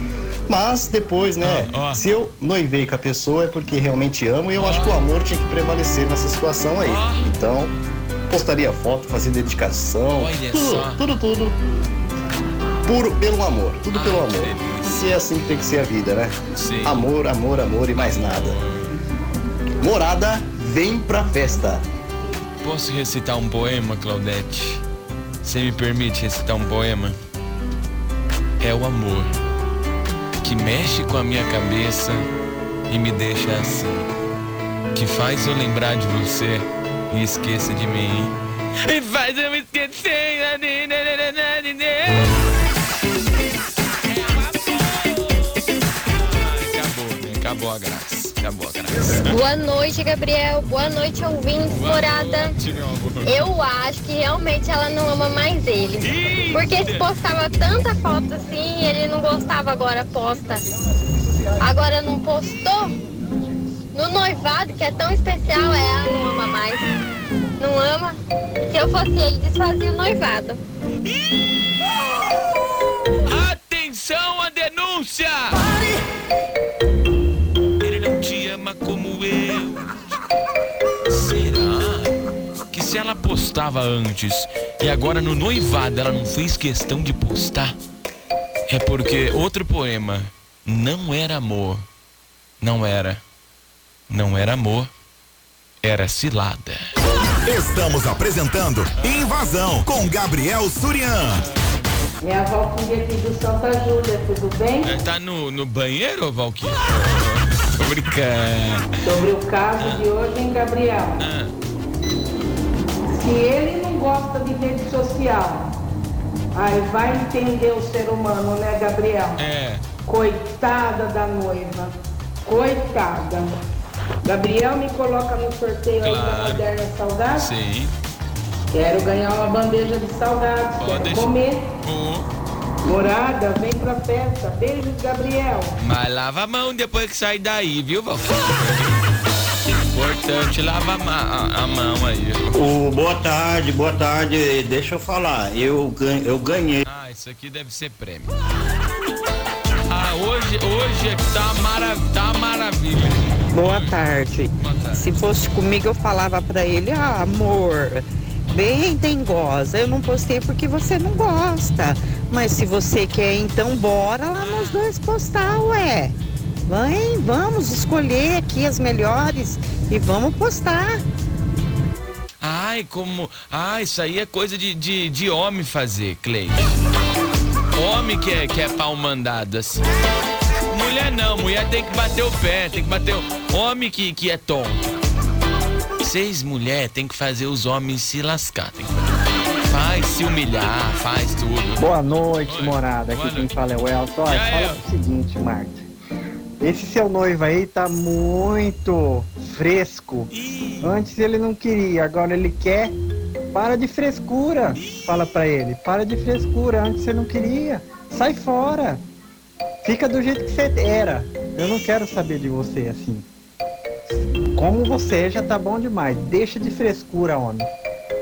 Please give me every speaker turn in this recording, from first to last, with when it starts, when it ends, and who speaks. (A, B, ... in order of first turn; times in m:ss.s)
0:00.5-0:07.7 A
0:01.4-0:02.1 B
0:04.5-0:05.1 B
0:06.8-0:07.3 B
0:08.3-0:11.6 A
0:10.1-0:11.0 B
0:12.8-0:18.6 A
0:13.9-0:15.1 B
0:16.6-0:17.1 B
0:18.0-0:18.9 B
0:19.8-0:21.8 A
0:22.6-0:24.8 B
0:25.4-0:27.2 B
0:28.6-0:29.3 B
0:30.4-0:32.2 B
0:32.9-0:34.1 B
0:34.9-0:38.3 B
0:38.8-0:42.3 B
0:44.1-0:45.6 B
0:46.2-0:49.4 B
0:49.2-0:52.6 C
0:51.7-0:53.4 B
0:53.2-1:00.6 C
0:56.0-0:57.2 B
1:01.6-1:02.9 C
1:03.9-1:06.8 C
1:07.6-1:08.2 C
1:08.7-1:10.6 C
1:13.3-1:15.6 B
1:17.8-1:20.0 B
1:21.1-1:22.1 B
1:22.7-1:27.7 B
1:28.7-1:31.8 B
1:32.6-1:33.2 B
1:34.1-1:34.9 B
1:35.8-1:36.9 B
1:37.4-1:41.4 D
1:39.0-1:39.3 B
1:42.2-1:44.9 E
1:44.8-1:48.9 B
1:49.0-1:51.2 E
1:49.8-1:50.0 B
1:51.2-1:51.5 B
1:53.1-1:55.7 E
1:56.5-1:59.4 E
1:59.4-1:59.8 B
2:00.0-2:01.9 E
2:02.4-2:03.5 E
2:04.2-2:07.5 E
2:06.0-2:06.7 B
2:07.4-2:07.9 B
2:08.7-2:11.7 E
2:10.8-2:12.3 B
2:12.8-2:15.8 E
2:15.8-2:19.0 B
2:19.9-2:22.6 B
2:22.6-2:26.8 F
2:26.9-2:28.3 B
2:29.9-2:35.1 B
2:33.5-2:46.1 G
2:44.3-2:44.9 B
2:46.7-2:51.0 G
2:52.4-2:56.8 B
2:57.7-2:59.9 B
3:00.7-3:04.8 B
3:06.0-3:08.9 B
3:09.7-3:13.5 B
3:11.8-3:15.9 H
3:14.2-3:14.8 B
3:16.6-3:20.3 H
3:20.3-3:21.0 B
3:20.8-3:22.9 H
3:23.5-3:29.0 H
3:24.7-3:25.1 B
3:29.8-3:33.3 H
3:34.6-3:37.7 H